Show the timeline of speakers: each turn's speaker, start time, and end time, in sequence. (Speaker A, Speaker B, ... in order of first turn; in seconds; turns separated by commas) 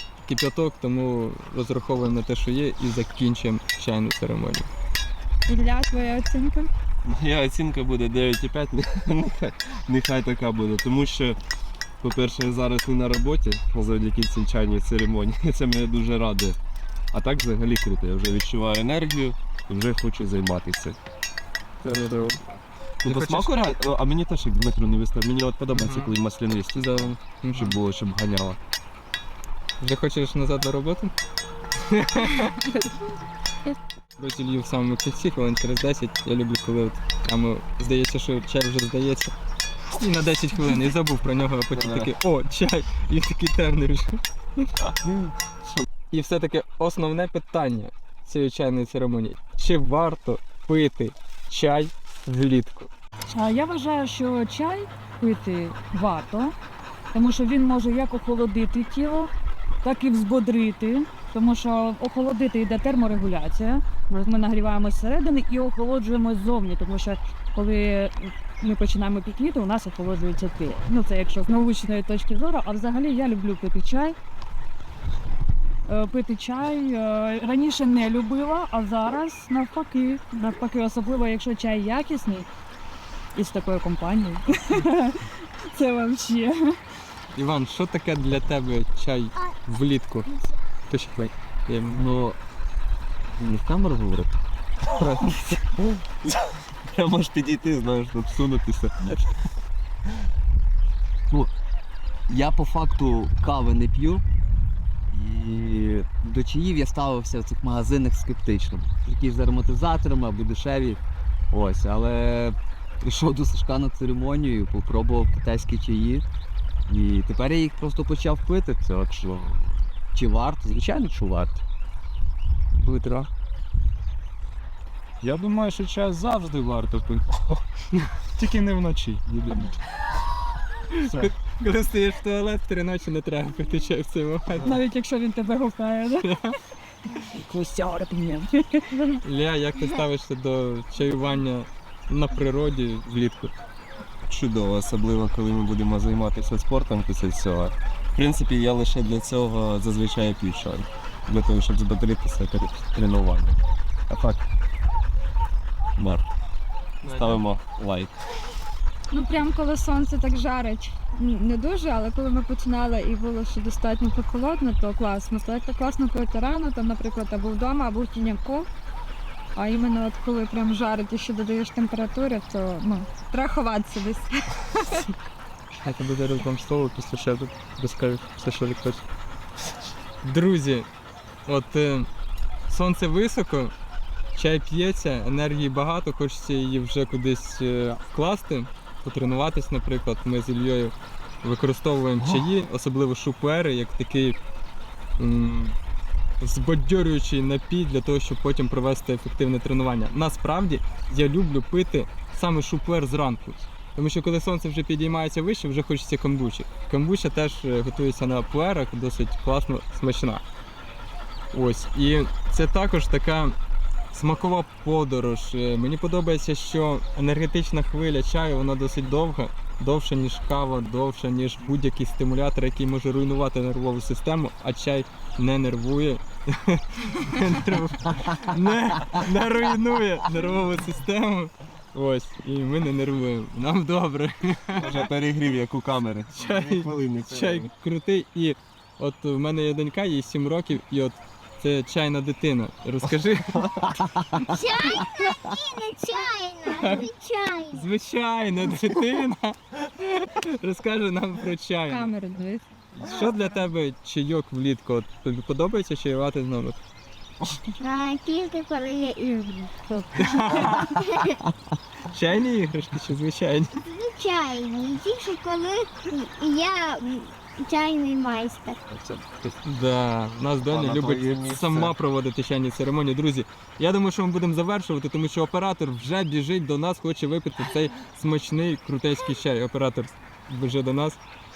Speaker A: 0.2-4.7, Speaker B: 5.5-6.7, Speaker C: 7.0-11.4, Speaker C: 12.0-16.6, Speaker C: 17.1-21.0, Speaker A: 21.8-22.4, Speaker C: 21.9-22.3, Speaker A: 23.0-23.6, Speaker C: 23.0-28.6, Speaker A: 25.7-26.1, Speaker A: 26.7-27.8, Speaker A: 29.8-31.1, Speaker A: 31.8-32.9, Speaker A: 34.2-39.3, Speaker A: 39.9-44.7, Speaker C: 41.7-42.1, Speaker C: 44.8-45.8, Speaker A: 46.1-52.9, Speaker D: 53.3-56.5, Speaker D: 57.1-59.3, Speaker D: 59.8-74.2, Speaker D: 75.9-82.5, Speaker D: 83.3-86.8, Speaker A: 87.3-90.3, Speaker A: 90.9-92.0, Speaker E: 91.9-92.4, Speaker E: 93.4-94.3, Speaker C: 96.9-99.1, Speaker E: 102.3-104.2, Speaker E: 105.1-116.2, Speaker E: 116.9-121.6, Speaker F: 125.2-127.3, Speaker F: 128.4-129.7, Speaker A: 131.0-134.8, Speaker F: 131.0-131.3, Speaker D: 134.6-136.3, Speaker A: 136.2-136.6, Speaker D: 137.1-139.2, Speaker A: 139.2-143.5, Speaker C: 144.3-154.4, Speaker C: 156.0-156.3, Speaker A: 157.0-157.4, Speaker C: 157.1-158.2, Speaker B: 159.1-168.7, Speaker B: 169.6-175.1, Speaker A: 175.8-179.0, Speaker A: 180.2-180.9, Speaker A: 181.5-182.1, Speaker A: 182.7-183.7, Speaker A: 184.3-194.4, Speaker A: 195.2-195.8, Speaker A: 196.4-210.4, Speaker A: 211.5-213.6, Speaker A: 214.1-235.1, Speaker C: 234.8-237.7, Speaker A: 236.3-244.0, Speaker G: 244.5-247.9, Speaker A: 246.7-247.1, Speaker A: 247.7-252.1, Speaker B: 251.9-252.6, Speaker A: 252.9-256.8, Speaker G: 257.8-259.7, Speaker A: 260.2-261.1, Speaker G: 261.0-261.3, Speaker A: 262.1-263.8, Speaker G: 263.9-268.8, Speaker C: 269.0-269.5, Speaker A: 269.6-281.2, Speaker C: 270.7-271.9